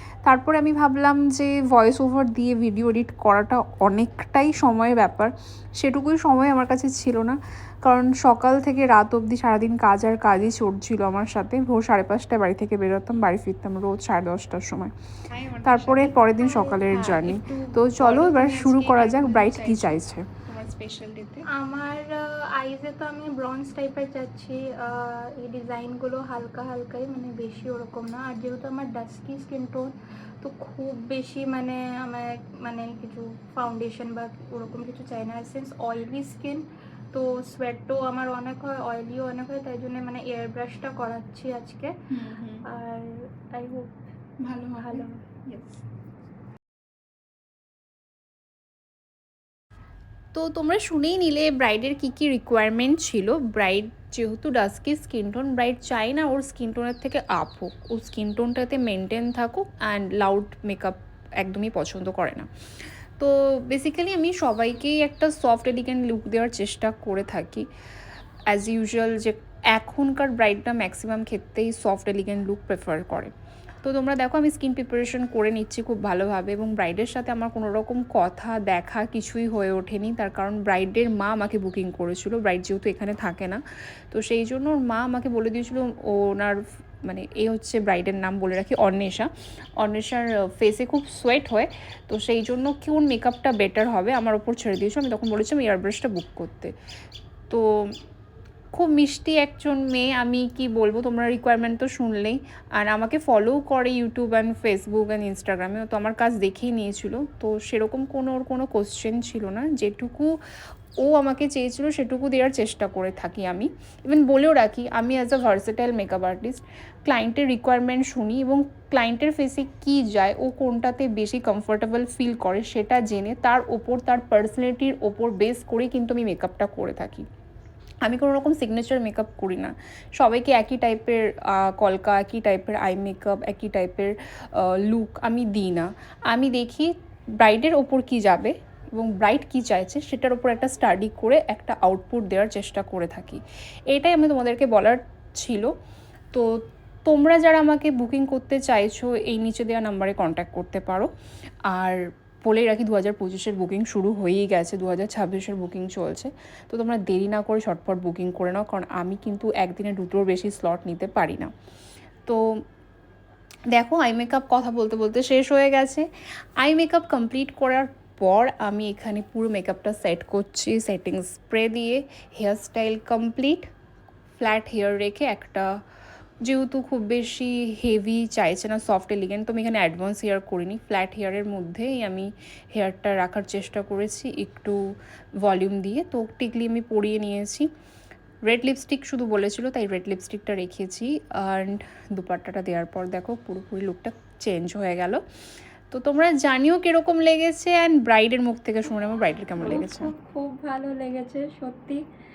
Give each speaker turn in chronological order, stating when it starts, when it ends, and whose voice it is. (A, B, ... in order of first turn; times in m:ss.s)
0:00.2-0:14.9 A
0:15.3-0:16.2 B
0:15.6-0:20.3 A
0:16.4-0:17.0 C
0:16.8-0:21.4 B
0:21.5-0:41.9 C
0:42.6-0:43.9 C
0:44.4-0:45.8 B
0:44.8-0:45.1 C
0:50.3-1:02.5 A
1:03.2-1:07.6 A
1:08.5-1:13.3 A
1:13.8-1:23.6 A
1:24.1-1:36.7 A
1:38.7-1:50.4 A
1:51.0-2:07.2 A
2:08.0-2:23.4 A
2:23.9-2:25.7 A
2:27.0-2:31.1 A
2:31.7-2:41.5 A
2:43.7-2:46.0 A
2:46.6-2:53.6 A
2:54.4-2:55.7 A
2:56.4-3:04.8 A
3:05.4-3:07.7 A
3:08.4-3:15.2 A
3:15.9-3:20.1 A
3:19.6-3:22.0 C